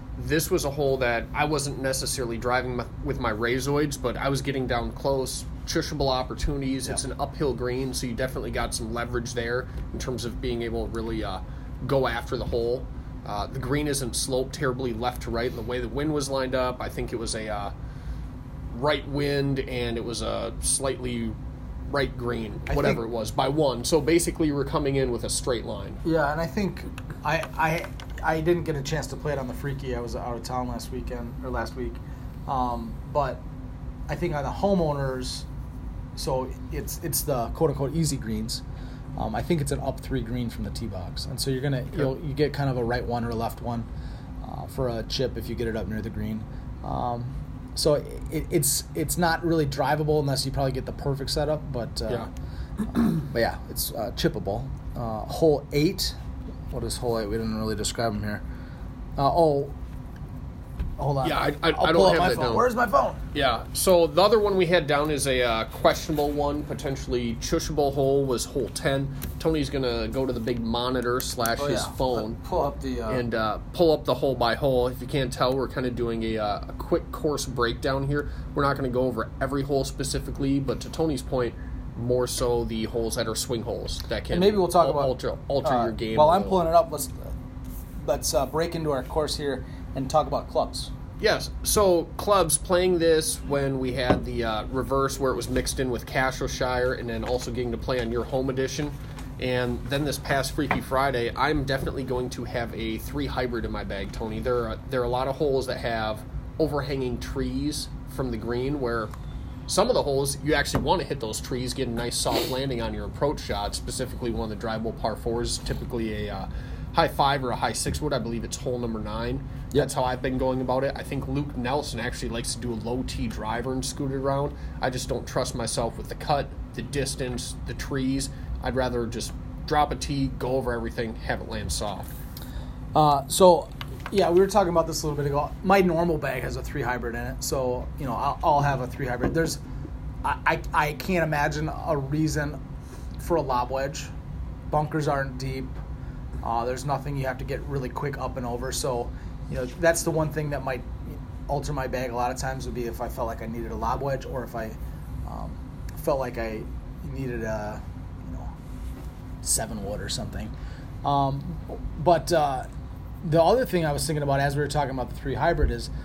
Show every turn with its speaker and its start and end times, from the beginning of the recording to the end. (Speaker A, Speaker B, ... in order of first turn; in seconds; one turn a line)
Speaker A: 0.2-17.7
Speaker A: 18.7-21.4
Speaker A: 21.9-26.0
Speaker B: 22.7-23.0
Speaker B: 26.0-33.4
Speaker B: 34.1-35.5
Speaker B: 36.2-38.6
Speaker B: 39.2-43.9
Speaker B: 44.4-52.3
Speaker B: 53.1-56.1
Speaker B: 56.7-58.4
Speaker B: 59.2-59.8
Speaker B: 61.0-63.2
Speaker A: 61.2-62.6
Speaker A: 63.3-72.4
Speaker B: 71.6-73.2
Speaker A: 73.1-86.6
Speaker B: 84.3-87.3
Speaker B: 88.0-90.9
Speaker A: 91.2-109.1
Speaker A: 109.7-132.1
Speaker B: 132.9-139.6
Speaker B: 140.2-142.6
Speaker B: 143.2-144.1
Speaker B: 144.7-145.8
Speaker B: 146.4-158.5
Speaker B: 159.4-160.5
Speaker B: 161.0-162.7
Speaker B: 163.2-165.9